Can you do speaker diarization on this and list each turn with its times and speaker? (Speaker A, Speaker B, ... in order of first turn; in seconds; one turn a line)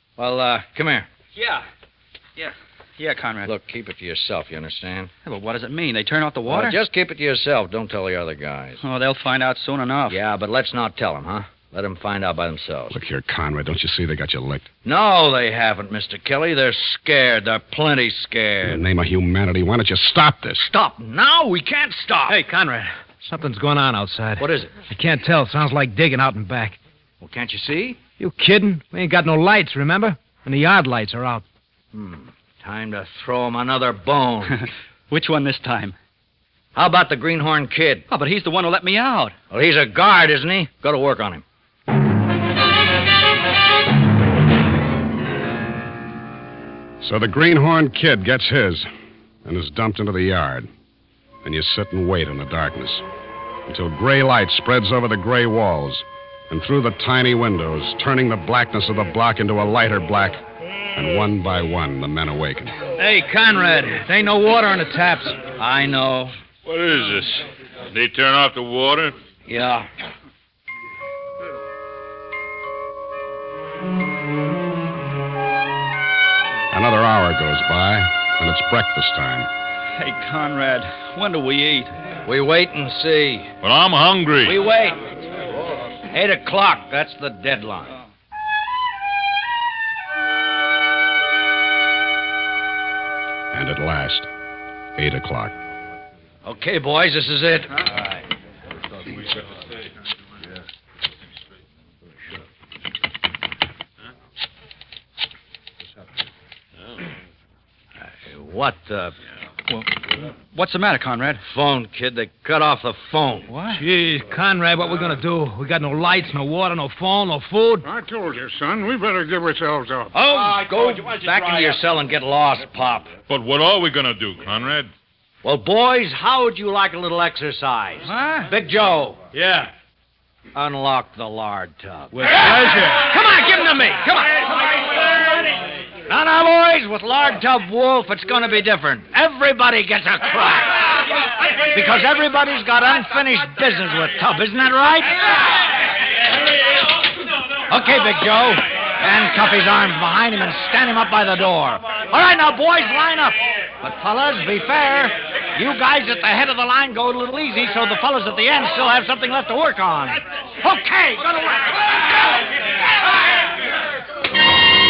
Speaker A: 0.2-1.1
Speaker B: 1.4-1.6
Speaker B: 2.4-3.5
Speaker A: 3.4-5.1
Speaker B: 5.2-6.8
Speaker A: 6.5-8.8
Speaker B: 8.8-10.2
Speaker A: 10.1-12.9
Speaker C: 12.9-14.7
Speaker A: 14.8-18.8
Speaker C: 18.6-20.7
Speaker A: 20.6-22.4
Speaker D: 22.3-26.8
Speaker A: 24.4-24.7
Speaker A: 27.2-28.0
Speaker D: 28.2-31.4
Speaker A: 31.9-34.7
Speaker B: 34.6-36.0
Speaker A: 36.7-38.0
Speaker B: 38.1-39.3
Speaker A: 39.5-41.4
Speaker C: 47.0-48.9
Speaker C: 49.4-50.7
Speaker C: 51.4-53.0
Speaker C: 53.7-60.4
Speaker C: 60.9-62.8
Speaker A: 63.0-66.3
Speaker E: 66.6-69.2
Speaker A: 69.5-69.9
Speaker C: 76.7-79.5
Speaker B: 80.0-81.9
Speaker A: 82.2-83.5
Speaker E: 83.6-84.6
Speaker A: 84.4-85.0
Speaker A: 86.1-87.9
Speaker C: 93.5-94.3
Speaker C: 95.0-95.5
Speaker A: 96.4-97.9
Speaker A: 108.0-109.1
Speaker B: 110.5-111.4
Speaker A: 111.4-113.5
Speaker B: 113.5-113.8
Speaker D: 113.7-117.8
Speaker F: 117.8-120.1
Speaker A: 120.1-123.1
Speaker E: 123.3-124.9
Speaker A: 125.4-129.2
Speaker B: 128.1-128.4
Speaker E: 129.3-129.7
Speaker A: 130.5-132.6
Speaker D: 132.2-134.5
Speaker E: 132.4-132.8
Speaker A: 136.1-140.9
Speaker A: 141.7-145.3
Speaker A: 147.7-161.8